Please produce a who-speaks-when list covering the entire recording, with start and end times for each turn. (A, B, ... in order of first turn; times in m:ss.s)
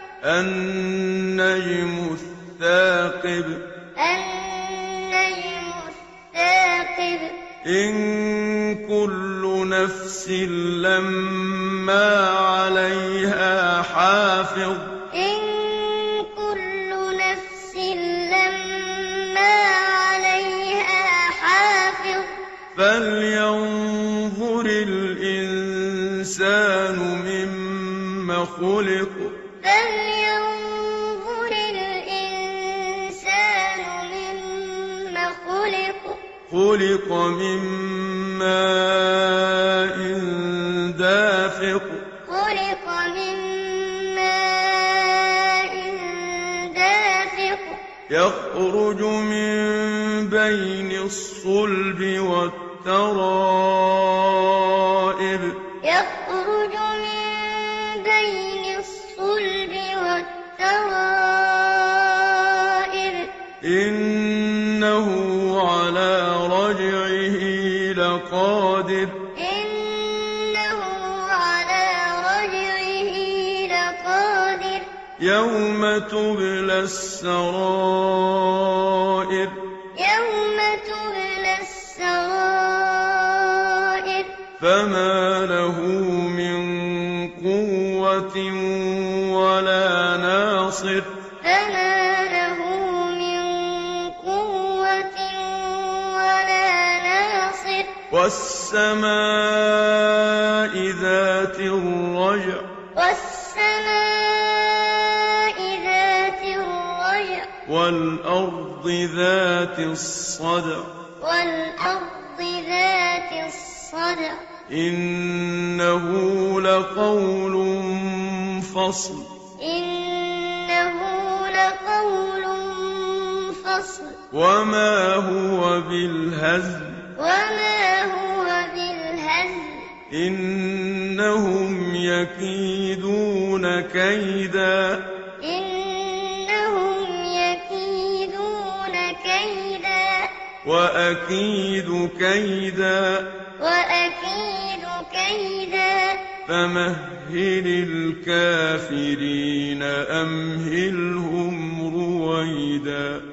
0:00.2-0:03.6 A
0:04.0-0:07.4 B
0:07.6-0:14.9 A
0:15.1-0:22.4 B
0:22.8-0:29.3 A
0:29.6-0:36.2 B
0:36.5-0:42.0 A
0:42.3-0:47.8 B
0:48.1-0:55.6 A
0:55.8-1:03.3 B
1:03.6-1:09.2 A
1:09.4-1:14.9 B
1:15.2-1:19.6 A
1:20.0-1:24.4 B
1:24.6-1:31.1 A
1:31.4-1:37.9 B
1:38.1-1:42.7 A
1:43.0-1:47.5 B
1:47.6-1:50.9 A
1:51.2-1:54.5 B
1:54.7-1:59.3 A
1:59.6-2:04.2 B
2:04.3-2:07.0 A
2:07.2-2:09.9 B
2:10.1-2:15.0 A
2:15.4-2:20.3 B
2:20.6-2:23.3 A
2:23.6-2:26.2 B
2:26.4-2:33.3 A